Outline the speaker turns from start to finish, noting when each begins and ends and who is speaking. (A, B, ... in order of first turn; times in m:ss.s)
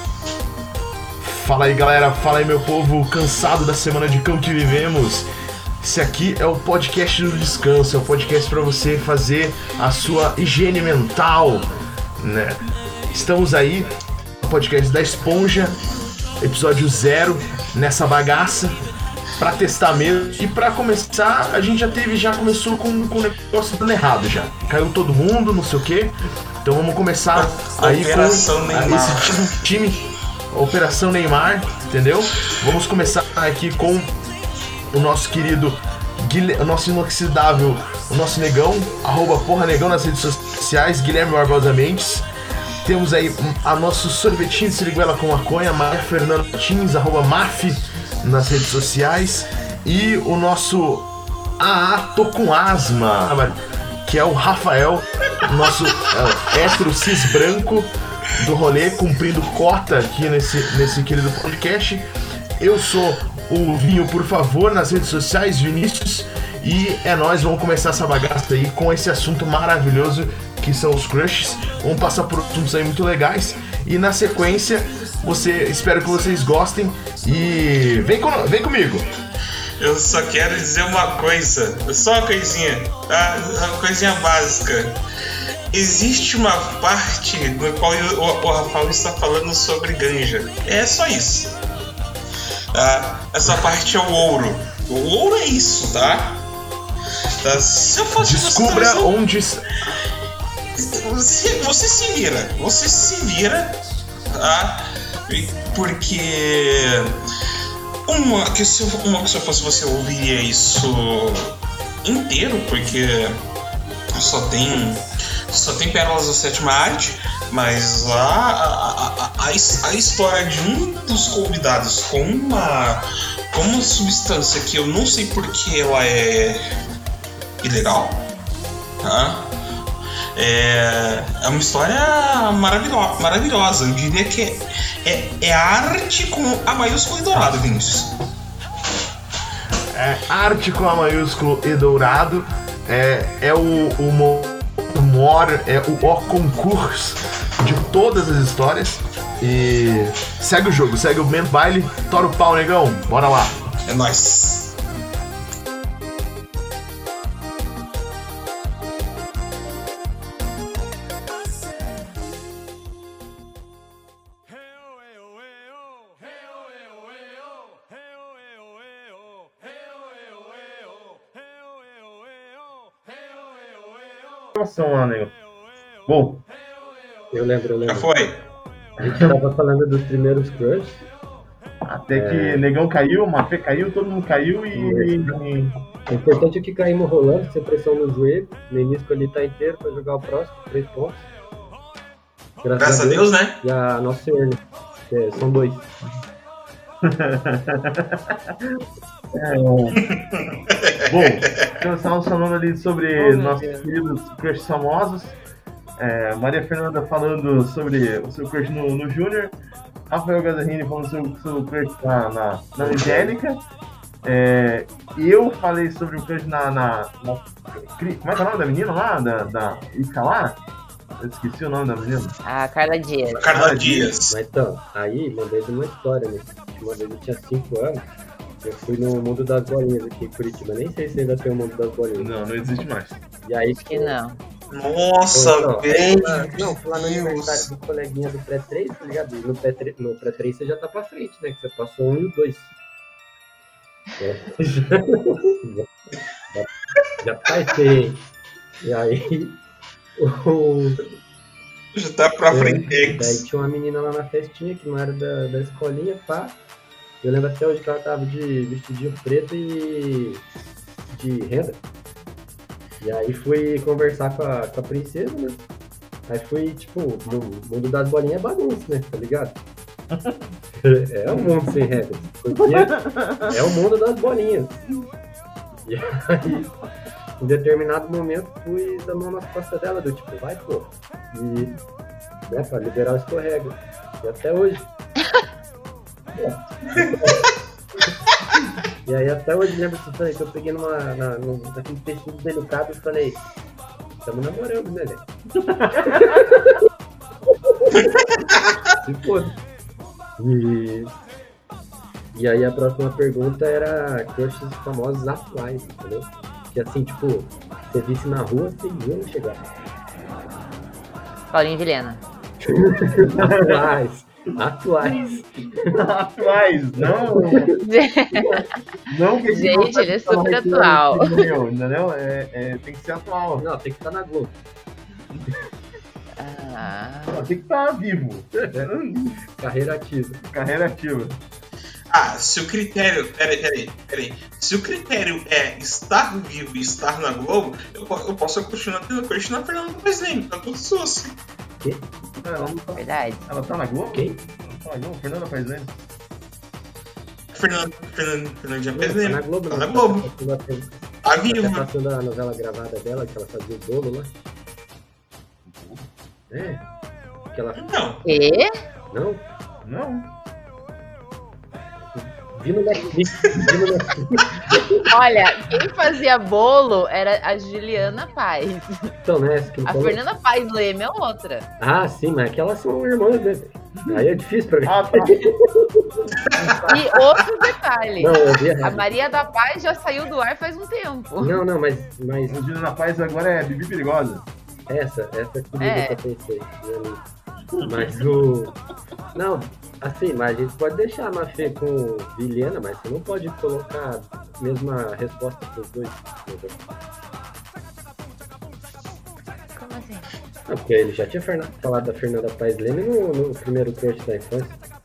0:01.2-0:05.3 A
0:05.8-0:13.9 A
0:14.4-0:15.8 A
0:16.4-0:18.8 A
0:19.4-0:34.2 A
0:27.3-0:29.5 B
0:34.9-0:42.3 A
0:42.8-1:02.1 A
1:02.6-1:19.1 A
1:19.8-1:25.0 B
1:25.7-1:31.6 B
1:32.7-1:36.4 B
1:37.4-1:39.1 B
1:38.2-1:39.6 A
1:40.8-1:47.2 B
1:48.1-1:53.4 B
1:54.1-2:06.6 B
2:07.6-2:08.3 B
2:09.0-2:09.5 B
2:10.4-2:18.2 B
2:19.9-2:33.6 A
2:33.9-2:34.8 B
2:54.5-2:55.4 A
2:56.1-2:56.4 A
2:57.3-2:58.1 C
2:57.8-2:58.4 B
2:59.0-3:01.0 C
2:59.0-2:59.3 A
3:01.8-3:05.8 A
3:02.1-3:02.6 C
3:04.7-3:05.3 C
3:06.1-3:11.3 C
3:12.6-3:15.9 C
3:12.8-3:13.6 B
3:17.0-3:18.7 A
3:19.3-3:20.0 A
3:20.0-3:21.7 B
3:21.0-3:25.4 A
3:23.2-3:23.6 C
3:26.0-3:29.5 A
3:30.1-3:33.6 A
3:32.8-3:33.4 C
3:34.2-3:40.6 A
3:41.2-3:42.4 A
3:42.4-3:43.5 D
3:43.4-3:44.3 B
3:43.5-3:44.2 A
3:44.3-3:48.1 C
3:48.6-3:52.4 C
3:52.2-3:53.2 A
3:53.4-3:54.2 C
3:53.9-3:54.4 D
3:54.7-3:57.7 B
3:55.3-4:02.7 C
4:04.2-4:05.9 C
4:07.2-4:08.2 C
4:08.8-4:09.6 C
4:10.2-4:11.0 C
4:11.9-4:13.4 B
4:12.5-4:16.6 C
4:17.2-4:20.4 C
4:21.1-4:21.8 C
4:23.0-4:25.7 C
4:26.3-4:29.6 C
4:30.1-4:30.4 A
4:30.8-4:34.8 C
4:32.6-4:33.6 A
4:35.9-4:36.7 C
4:37.4-4:41.8 C
4:42.5-4:44.9 C
4:46.4-4:47.4 A
4:49.0-4:53.4 C
4:54.2-4:55.2 C
4:55.6-4:56.4 A
4:56.0-4:56.8 C
4:57.7-4:58.1 C
4:59.0-4:59.6 C
5:00.4-5:01.2 C
5:02.3-5:09.6 C
5:11.5-5:12.2 D
5:12.6-5:15.9 C
5:13.3-5:14.0 A
5:15.0-5:17.7 A
5:17.0-5:17.7 C
5:17.8-5:18.6 D
5:18.4-5:23.6 A
5:19.5-5:21.5 D
5:23.6-5:24.6 C
5:26.4-5:27.5 D
5:27.3-5:29.5 A
5:28.6-5:28.9 C
5:29.6-5:30.4 C
5:30.4-5:31.4 A
5:32.1-5:41.4 B
5:41.8-5:42.1 C
5:42.4-5:45.9 A
5:43.0-5:43.5 D
5:44.1-5:44.4 C
5:47.5-5:50.3 B
5:49.0-5:54.3 C
5:51.2-5:51.9 B
5:55.7-5:56.1 A
5:56.5-5:56.8 C
5:57.5-5:57.8 C
5:57.8-5:58.2 B
5:58.2-5:58.7 D
5:59.1-5:59.5 C
5:59.8-6:00.3 A
6:02.2-6:05.1 C
6:05.1-6:09.1 D
6:09.2-6:10.2 C
6:09.9-6:11.7 D
6:11.8-6:16.3 C
6:14.8-6:15.5 A
6:16.5-6:16.9 A
6:16.9-6:21.6 D
6:18.2-6:19.1 C
6:21.4-6:22.6 C
6:22.5-6:24.5 A
6:24.9-6:27.2 C
6:25.8-6:26.2 D
6:27.8-6:28.3 A
6:27.8-6:28.8 C
6:29.4-6:36.8 C
6:39.8-6:40.3 D
6:40.7-6:44.8 C